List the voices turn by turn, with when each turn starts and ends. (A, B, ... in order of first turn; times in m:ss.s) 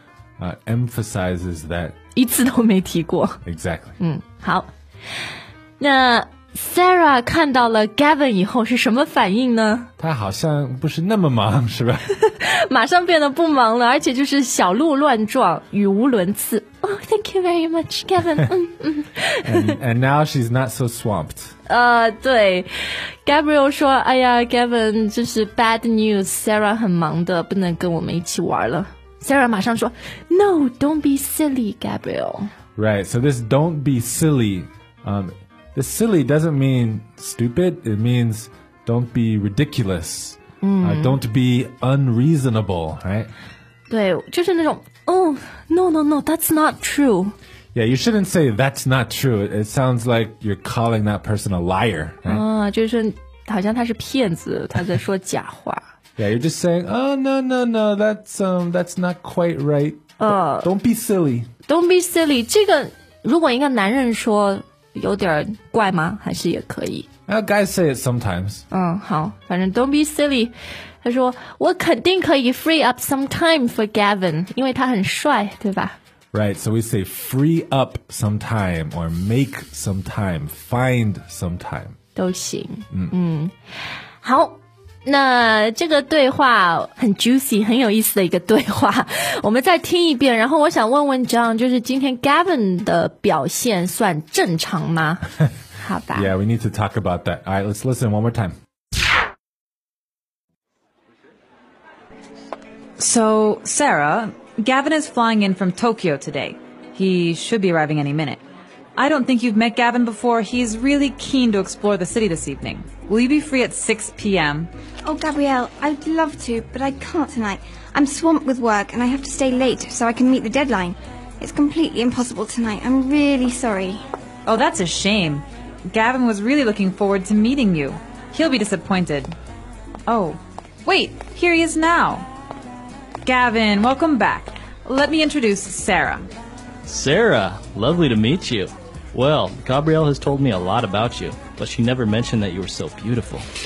0:00.4-0:01.9 A
0:02.1-0:03.4 B
0:03.4-0:04.0 A
0:04.0-0:04.7 B
0:05.8-0:09.9 B
0:10.0-0:12.1 A
0:12.2-0:19.8 B
0:19.4-0:21.5 A
0:21.7-0:22.7 B
0:23.2-0:32.5 B
0:32.8-0:43.3 A
0:40.6-0:41.2 B
0:43.9-0:47.3 B
0:47.7-0:52.4 A
0:52.2-0:55.8 B
0:56.2-1:01.5 A
1:00.2-1:00.7 B
1:01.7-1:07.1 B
1:07.3-1:08.6 A
1:08.7-1:16.0 B
1:16.3-1:22.0 A
1:22.1-1:23.5 B
1:24.2-1:36.3 B
1:36.1-1:38.5 A
1:43.0-1:48.4 C
1:49.0-1:54.7 C
1:55.0-2:04.0 D
2:04.4-2:09.3 C
2:10.1-2:12.3 C
2:13.2-2:16.2 C
2:16.8-2:23.4 E